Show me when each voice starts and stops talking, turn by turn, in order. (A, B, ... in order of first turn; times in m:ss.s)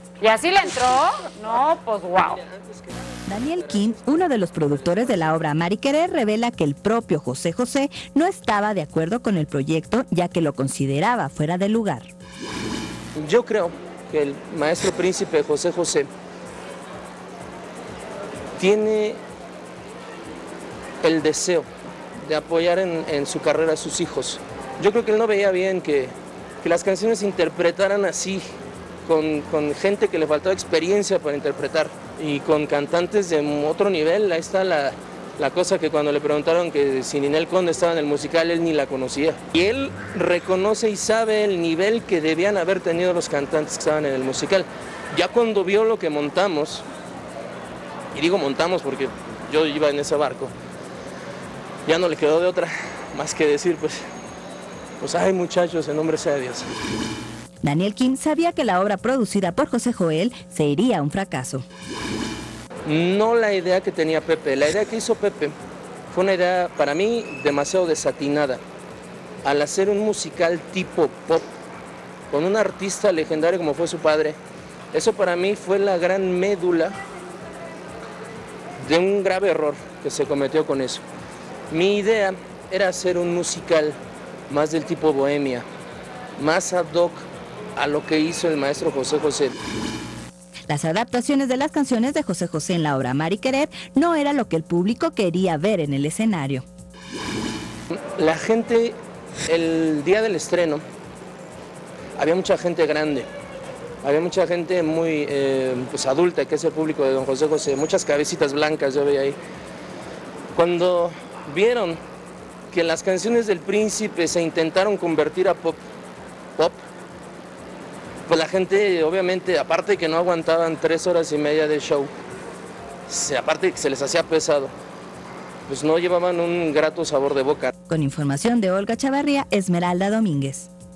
0:00.2-0:02.4 A
0:03.3-0:12.1 B
0:13.2-0:16.1 C
0:18.6-0:19.2 C
0:21.0-0:28.5 C
0:29.0-0:46.9 C
0:48.1-0:50.5 C
0:51.9-0:54.0 C
0:55.0-0:56.7 C
0:57.6-1:01.6 B
1:02.8-1:05.6 C
1:06.1-1:08.6 C
1:09.4-1:11.5 C
1:12.3-1:14.4 C
1:14.9-1:17.0 C
1:18.8-1:21.0 C
1:21.7-1:24.0 C
1:24.5-1:25.7 C
1:26.4-1:29.6 C
1:30.7-1:36.7 B
1:37.9-1:40.8 C
1:42.2-1:43.3 C
1:44.0-1:49.4 C
1:50.5-1:52.0 C
1:52.7-1:55.8 C
1:58.3-2:02.1 C
2:03.1-2:04.7 C
2:05.7-2:07.7 C
2:07.9-2:10.7 B